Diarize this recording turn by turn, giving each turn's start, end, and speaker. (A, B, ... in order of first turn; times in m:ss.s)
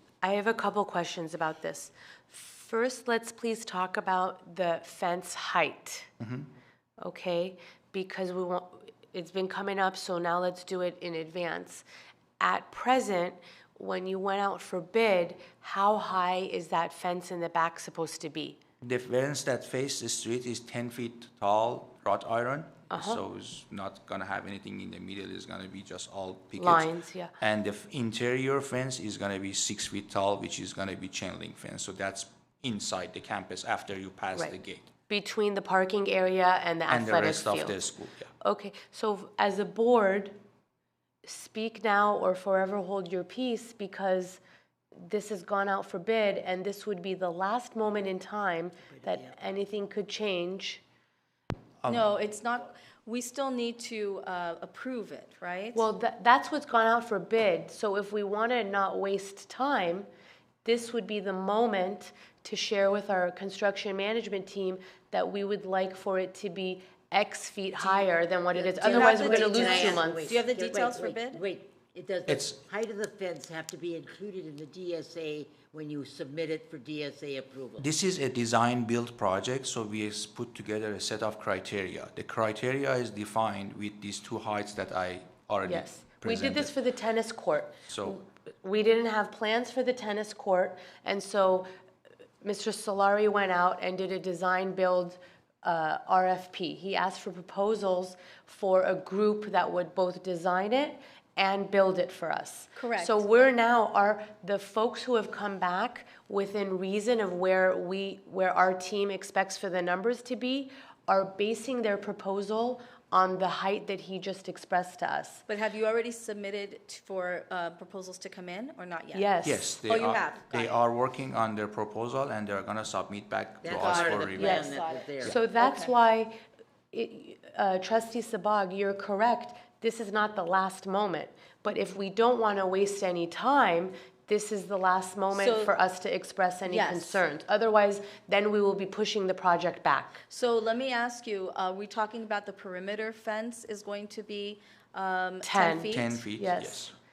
0:00.2-0:06.1 A
0:06.2-0:06.5 B
0:07.0-0:11.8 A
0:12.4-0:18.6 A
0:18.8-0:26.9 B
0:22.9-0:23.2 A
0:26.6-0:27.3 A
0:27.4-0:34.9 B
0:35.1-0:37.8 A
0:36.9-0:38.3 B
0:38.4-0:40.4 A
0:41.2-0:44.4 A
0:45.0-0:50.8 A
0:48.9-0:49.3 C
0:51.8-0:52.1 B
0:51.8-0:55.9 D
0:55.7-1:00.1 A
1:00.6-1:10.4 A
1:08.5-1:17.8 C
1:08.7-1:11.4 D
1:12.3-1:12.6 B
1:17.8-1:26.7 B
1:25.6-1:31.7 A
1:27.9-1:28.2 B
1:32.4-1:55.4 A
1:42.8-1:43.5 D
1:55.5-2:00.8 D
1:59.1-1:59.8 A
1:59.4-2:04.7 B
2:03.6-2:05.3 C
2:03.7-2:05.9 D
2:04.3-2:06.3 A
2:06.9-2:20.2 A
2:15.3-2:15.8 D
2:16.6-2:17.3 D
2:20.3-2:26.2 D
2:25.4-2:26.9 A
2:25.9-2:26.9 B